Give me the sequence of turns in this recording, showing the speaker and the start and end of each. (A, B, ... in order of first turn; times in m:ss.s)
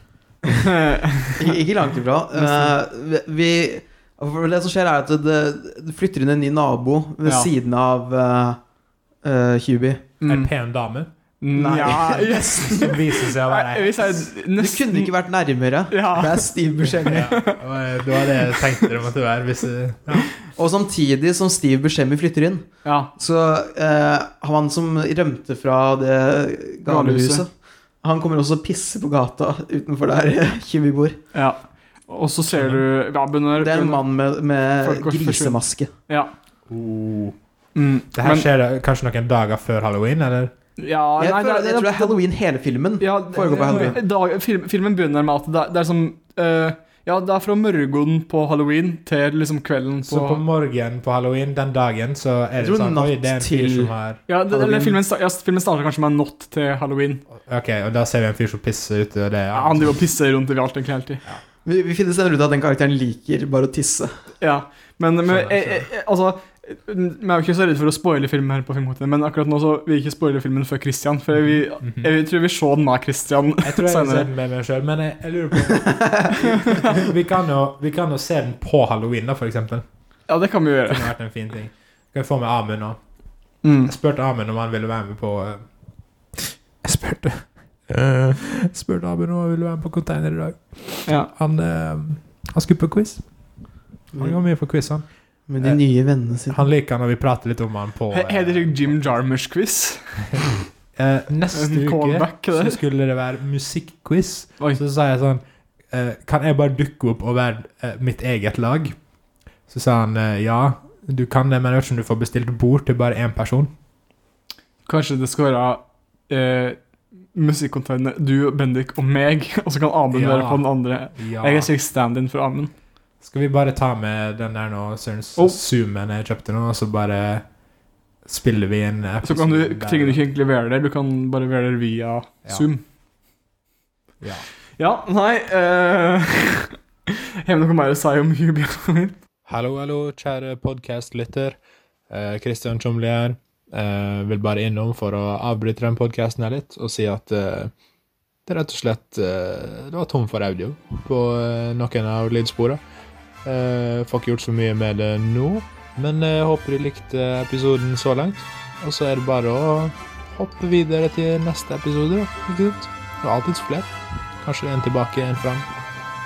0:00.4-0:01.6 A
0:01.4-0:08.6 B
0:02.3-0:02.7 A
0:09.2-0:10.1 B
0:10.2-0:10.5 A
0:10.2-0:14.1 C
0:11.4-0:15.1 A
0:11.5-0:12.9 B
0:14.6-0:17.4 B
0:15.9-0:17.6 A
0:17.0-0:20.3 C
0:18.2-0:18.9 A
0:20.5-0:27.5 B
0:22.8-0:23.1 A
0:26.9-0:27.4 A
0:28.0-0:31.2 B
0:31.3-0:34.0 A
0:32.5-0:32.8 C
0:33.5-0:35.9 B
0:34.8-0:36.3 A
0:36.7-0:37.4 C
0:37.7-0:38.4 A
0:38.1-0:40.5 C
0:40.8-0:42.2 A
0:41.2-0:44.0 B
0:43.0-0:50.4 A
0:43.3-0:44.0 C
0:50.1-0:54.2 C
0:52.6-0:53.9 B
0:54.3-0:57.2 A
0:54.5-0:55.0 B
0:57.3-0:59.9 C
0:59.5-1:01.2 A
1:01.6-1:04.1 B
1:04.4-1:14.3 A
1:05.3-1:05.9 C
1:11.5-1:12.1 C
1:13.6-1:19.8 C
1:15.8-1:16.4 B
1:16.5-1:16.9 A
1:20.3-1:21.1 A
1:20.9-1:23.0 C
1:23.6-1:23.9 A
1:23.8-1:25.6 C
1:26.3-1:33.2 C
1:31.0-1:31.3 A
1:34.2-1:35.0 C
1:35.5-1:36.6 B
1:36.5-1:39.2 C
1:38.1-1:40.5 A
1:41.0-1:49.0 C
1:41.5-1:42.8 A
1:49.7-1:53.7 C
1:54.8-1:56.8 A
1:57.3-2:02.7 A
2:00.1-2:01.7 C
2:03.2-2:07.4 C
2:08.2-2:10.2 C
2:09.2-2:12.8 A
2:14.8-2:19.2 A
2:19.5-2:21.6 C
2:22.1-2:27.7 C
2:28.4-2:32.8 C
2:33.4-2:45.7 C